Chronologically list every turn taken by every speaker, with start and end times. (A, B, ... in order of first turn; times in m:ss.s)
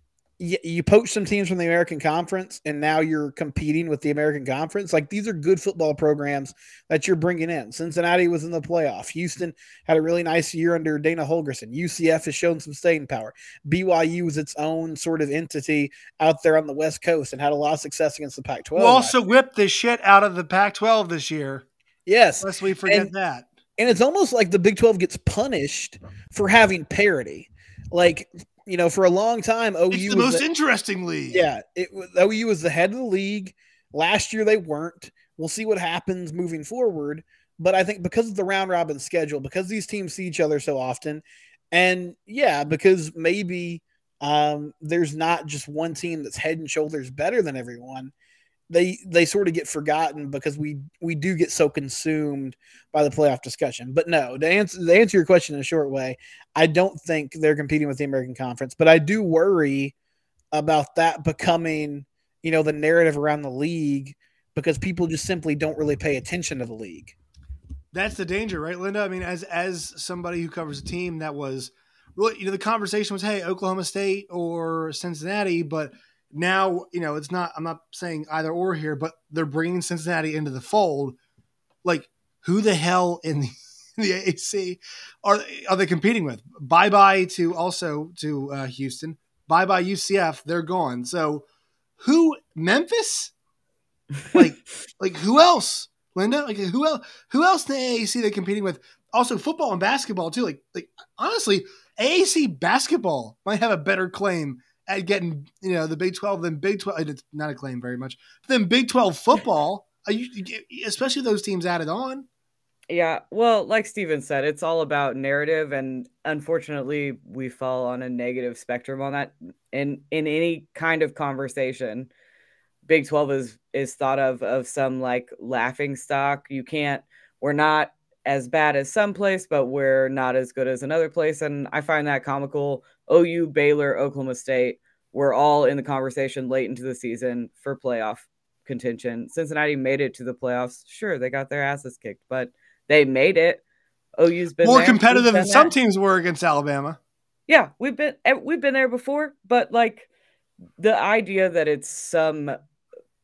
0:00.4-0:19.1 A
0:18.8-0:21.6 B
0:22.1-0:23.1 A
0:22.4-0:23.5 B
0:23.8-0:30.4 A
0:29.9-0:31.5 B
0:31.3-0:48.1 A
0:48.7-0:59.9 A
1:00.5-1:07.2 A
1:07.9-1:21.2 B
1:21.8-1:31.4 B
1:32.0-1:33.3 B
1:34.3-1:52.3 B
1:52.9-2:02.1 C
2:02.9-2:23.6 C
2:24.2-2:25.7 C
2:24.6-2:27.0 B
2:27.5-2:30.1 C
2:30.8-2:32.6 C